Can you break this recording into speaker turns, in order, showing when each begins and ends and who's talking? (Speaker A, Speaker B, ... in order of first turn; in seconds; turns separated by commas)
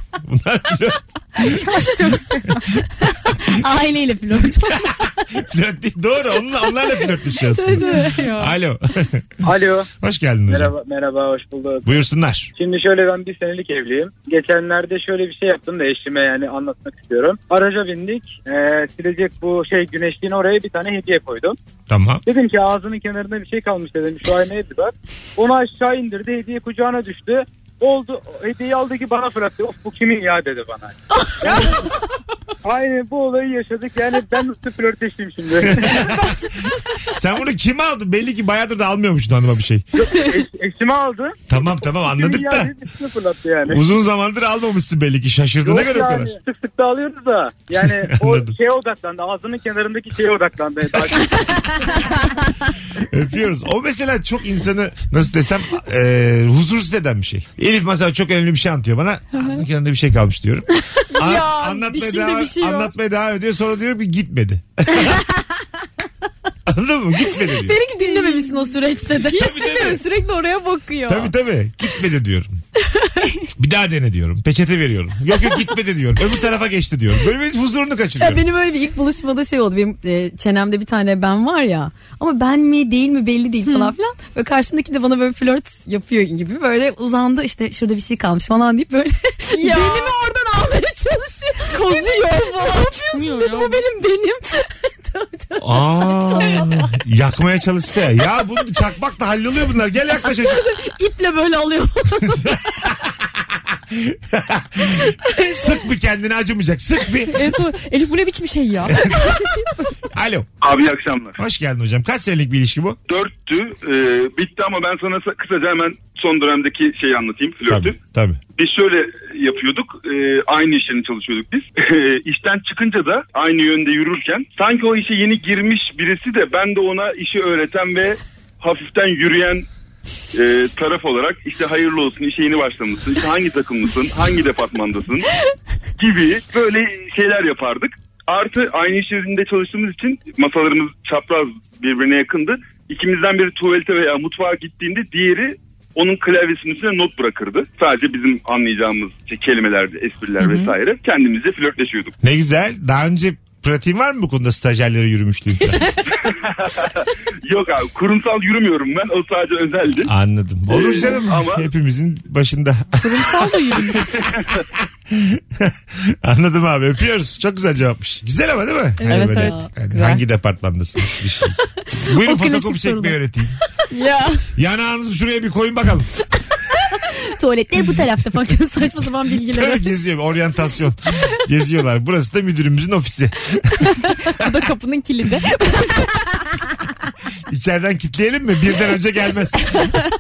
Speaker A: 0.2-1.6, Speaker B: 1.4-2.9, Speaker C: 3.4-5.3, Speaker A: 5.3-9.3, Speaker C: 7.1-8.3, Speaker B: 7.8-8.6, Speaker D: 9.4-9.9, Speaker A: 10.0-10.7, Speaker D: 10.5-12.0, Speaker A: 11.8-12.5, Speaker D: 12.6-21.6, Speaker A: 21.9-22.2, Speaker D: 22.3-31.8, Speaker D: 32.6-36.1, Speaker A: 35.6-36.5, Speaker A: 37.1-39.9, Speaker D: 40.0-43.9, Speaker A: 41.5-42.7, Speaker A: 43.7-46.3, Speaker D: 45.6-52.1, Speaker A: 47.8-48.5, Speaker A: 53.0-65.2, Speaker B: 59.4-59.6, Speaker B: 61.1-62.9, Speaker A: 66.7-67.8, Speaker C: 67.5-69.6, Speaker B: 68.0-71.3, Speaker A: 69.4-70.0, Speaker A: 71.1-72.6, Speaker C: 73.0-73.3, Speaker A: 73.6-78.4, Speaker C: 78.2-96.9, Speaker B: 83.7-84.0, Speaker B: 89.5-90.2, Speaker B: 91.7-93.9, Speaker A: 95.6-100.7, Speaker B: 96.4-96.7, Speaker C: 100.3-102.9, Speaker A: 102.3-103.0, Speaker A: 103.7-107.4, Speaker B: 107.3-109.7, Speaker A: 108.9-109.3, Speaker A: 110.1-110.5, Speaker E: 110.6-111.4, Speaker A: 111.4-113.0, Speaker E: 113.1-118.0, Speaker A: 117.7-118.4, Speaker E: 118.6-129.7, Speaker E: 130.3-135.3, Speaker E: 136.0-152.1, Speaker A: 152.2-156.0, Speaker E: 156.2-160.1, Speaker A: 160.1-163.5, Speaker E: 160.7-161.7, Speaker B: 163.1-164.0, Speaker C: 163.2-164.0, Speaker A: 164.2-173.6, Speaker C: 169.0-169.7, Speaker B: 169.1-170.2, Speaker C: 172.0-173.2, Speaker B: 173.9-174.5, Speaker A: 174.6-176.1, Speaker C: 176.9-180.0, Speaker A: 179.5-184.0, Speaker B: 184.2-186.2, Speaker A: 187.5-190.0